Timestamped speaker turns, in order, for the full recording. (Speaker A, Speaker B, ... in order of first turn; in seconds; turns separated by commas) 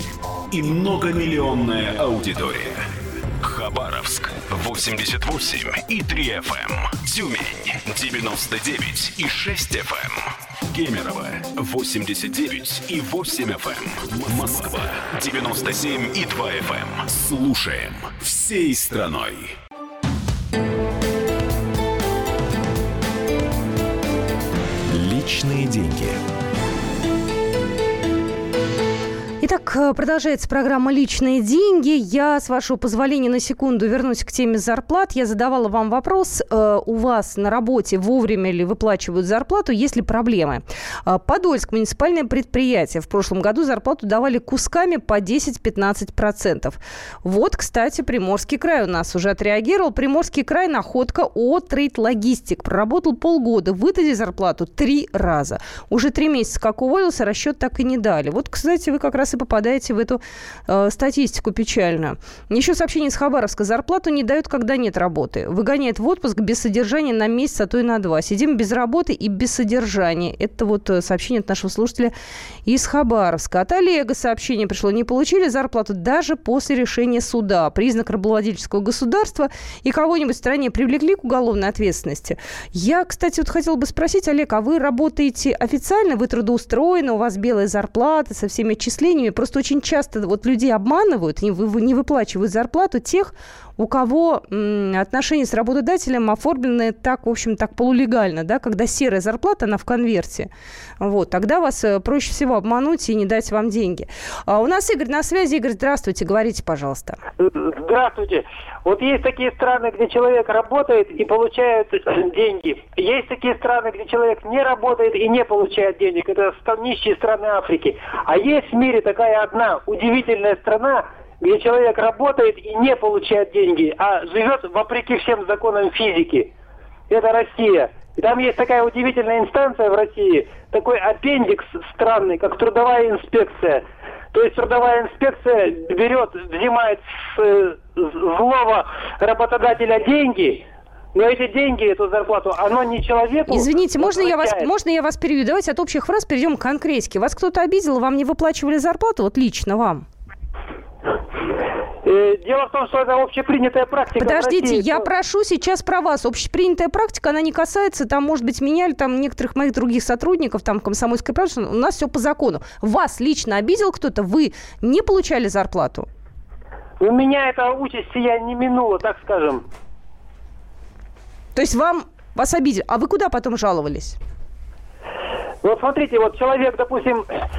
Speaker A: 0.5-2.8, Speaker A: 3.4-19.5, Speaker A: 24.9-26.2, Speaker B: 29.4-72.1, Speaker B: 72.7-100.5, Speaker B: 101.0-107.2, Speaker C: 107.4-126.5, Speaker C: 127.1-144.7, Speaker B: 143.5-150.1, Speaker C: 152.0-155.1, Speaker B: 154.2-166.1, Speaker C: 167.0-169.7, Speaker B: 171.6-174.2, Speaker C: 175.6-177.3